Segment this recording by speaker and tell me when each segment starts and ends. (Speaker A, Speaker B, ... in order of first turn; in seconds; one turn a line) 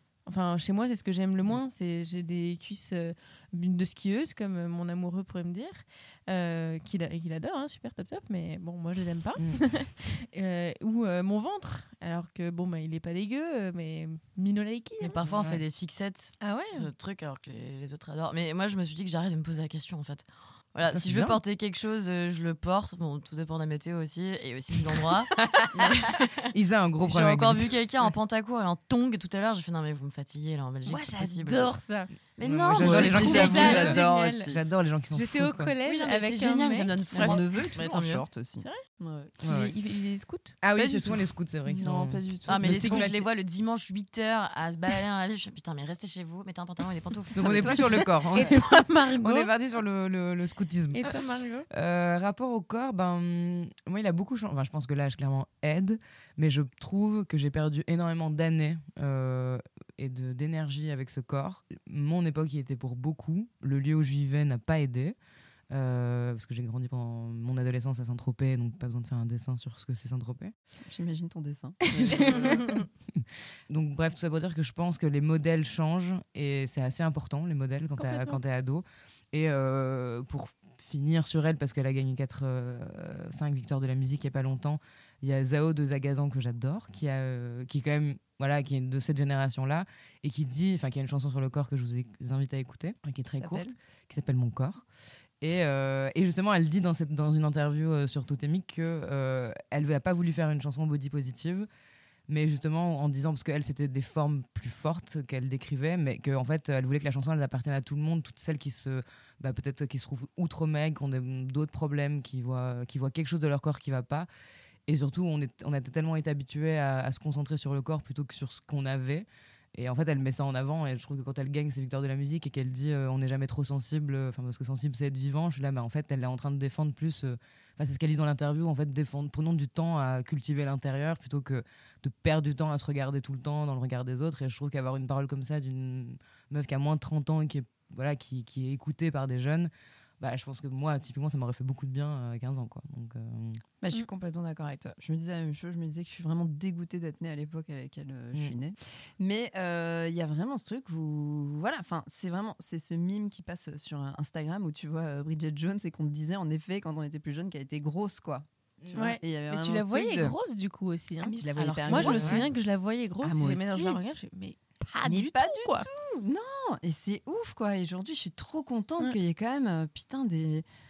Speaker A: 0.2-15.2
Speaker B: 15.0-26.5
Speaker C: 15.2-15.6
Speaker A: 16.4-16.9
Speaker C: 20.9-21.4
Speaker C: 26.5-27.7
Speaker B: 27.0-31.7
Speaker A: 30.9-32.1
Speaker B: 32.4-33.9
Speaker C: 32.4-35.7
Speaker D: 32.8-34.6
Speaker A: 33.0-34.5
Speaker A: 35.1-37.4
Speaker B: 35.8-38.2
Speaker D: 37.1-39.3
Speaker C: 39.4-39.7
Speaker A: 39.5-40.5
Speaker C: 40.6-43.2
Speaker D: 40.7-43.1
Speaker B: 42.5-48.2
Speaker C: 47.4-51.2
Speaker D: 47.4-47.8
Speaker A: 48.4-49.5
Speaker A: 50.9-51.6
Speaker C: 51.7-65.1
Speaker C: 65.7-70.5
Speaker D: 70.8-72.7
Speaker C: 71.9-72.8
Speaker C: 73.7-94.8
Speaker A: 78.0-78.4
Speaker D: 93.3-93.7
Speaker C: 95.4-101.7
Speaker C: 102.3-114.3
Speaker C: 114.9-143.6
Speaker D: 143.8-160.3
Speaker C: 158.8-159.1
Speaker A: 158.9-165.9
Speaker D: 161.2-162.4
Speaker B: 161.6-162.3
Speaker C: 161.9-162.4
Speaker D: 163.2-164.0
Speaker D: 165.0-170.6